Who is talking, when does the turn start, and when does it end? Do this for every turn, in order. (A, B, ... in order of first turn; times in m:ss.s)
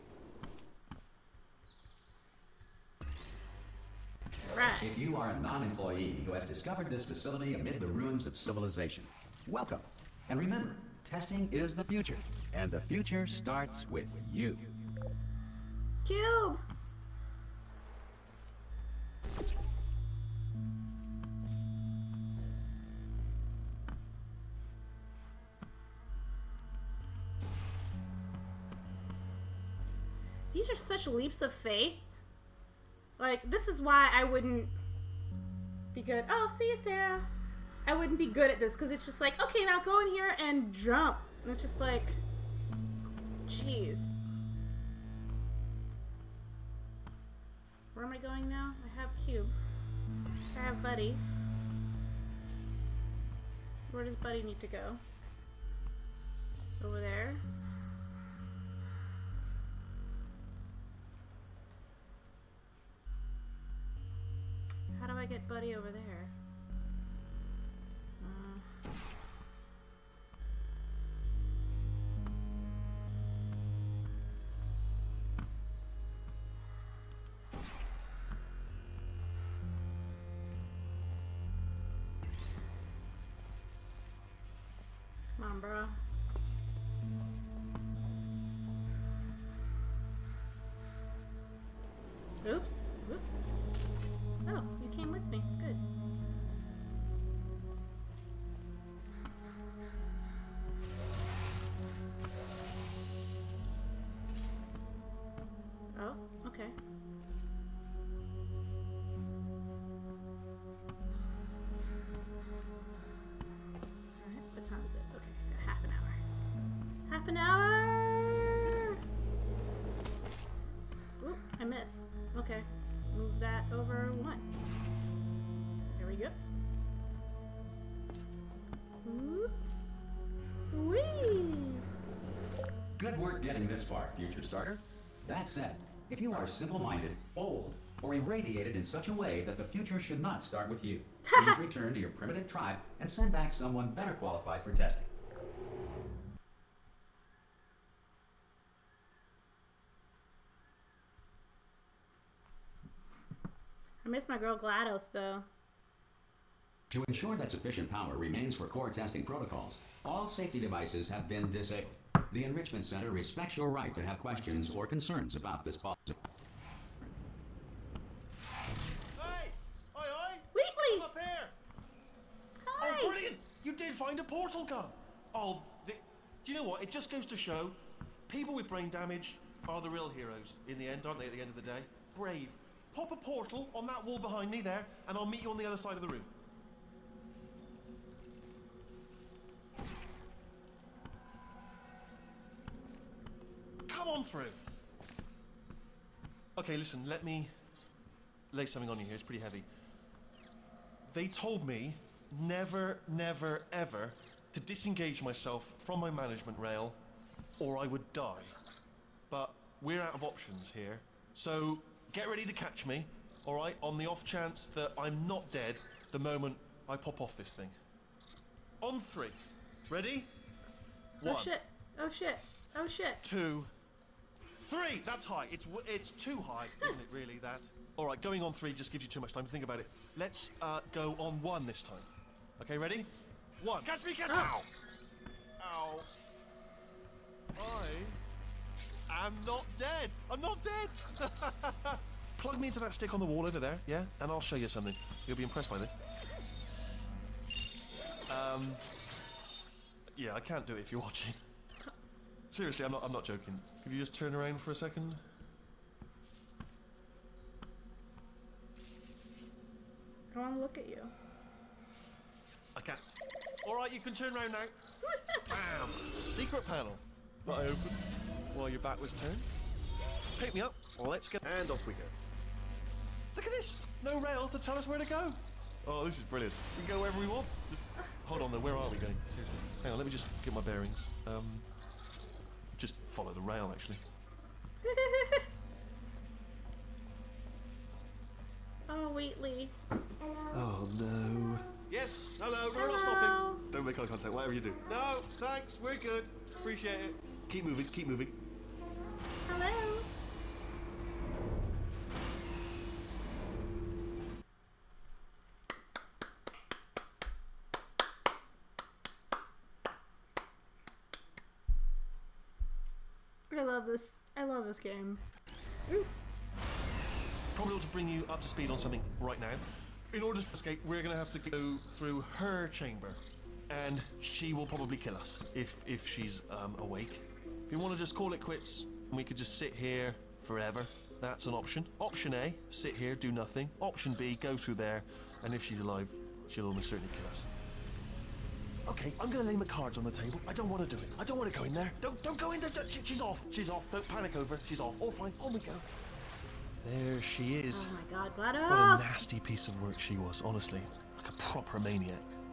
0:04.4-0:04.9 A
0:04.8-0:14.6 B
0:16.0-0:16.6 A
0:30.5-0:32.1 A
0:33.2-0:34.7 A
0:35.9-0:37.3 A
0:37.8-0:42.2 A
0:43.4-0:44.2 A
0:47.9-0:49.5 A
0:50.5-0:51.2 A
0:53.9-0:55.0 A
0:56.8-0:57.4 A
1:04.9-1:06.3 A
1:08.2-1:08.6 A
1:25.4-1:26.0 A
1:32.4-1:33.2 A
1:34.4-1:35.8 A
1:45.9-1:46.7 A
1:54.2-1:56.2 A
1:57.1-1:59.0 A
2:01.2-2:04.5 A
2:06.0-2:06.4 A
2:09.0-2:09.5 A
2:10.7-2:11.8 A
2:13.0-2:25.1 B
2:21.2-2:21.6 A
2:34.0-2:35.5 A
2:36.9-2:46.2 B
2:49.2-2:51.5 C
2:50.5-2:51.1 A
2:52.6-2:53.1 A
2:52.8-2:57.7 C
2:58.3-3:06.3 C
3:13.9-3:14.6 C
3:16.6-3:17.5 C
3:18.5-3:19.6 C
3:21.0-3:27.0 C
3:27.6-3:28.6 C
3:29.3-3:37.8 C
3:38.8-3:39.4 C
3:39.9-3:40.3 C
3:41.2-3:41.5 C
3:41.2-3:43.2 A
3:43.2-3:43.7 C
3:44.6-3:52.1 C
3:52.6-3:53.1 C
3:53.6-3:54.7 C
3:55.6-3:56.1 C
3:57.6-3:58.2 C
3:59.1-4:05.9 C
4:08.3-4:08.8 C
4:10.1-4:11.4 C
4:12.5-4:15.2 C
4:20.3-4:21.1 A
4:22.8-4:23.0 C
4:23.6-4:24.7 C
4:25.0-4:25.4 A
4:25.4-4:29.5 C
4:30.4-4:32.2 C
4:33.3-4:41.6 C
4:42.8-4:44.0 C
4:44.8-4:45.5 A
4:48.9-4:49.7 A
4:50.5-4:58.3 C
4:52.7-4:53.6 A
4:59.5-5:00.1 A
5:13.5-5:15.2 A
5:17.5-5:37.5 C
5:38.9-5:45.8 C
5:46.8-5:47.9 C
5:47.7-5:49.2 A
5:48.7-5:52.3 C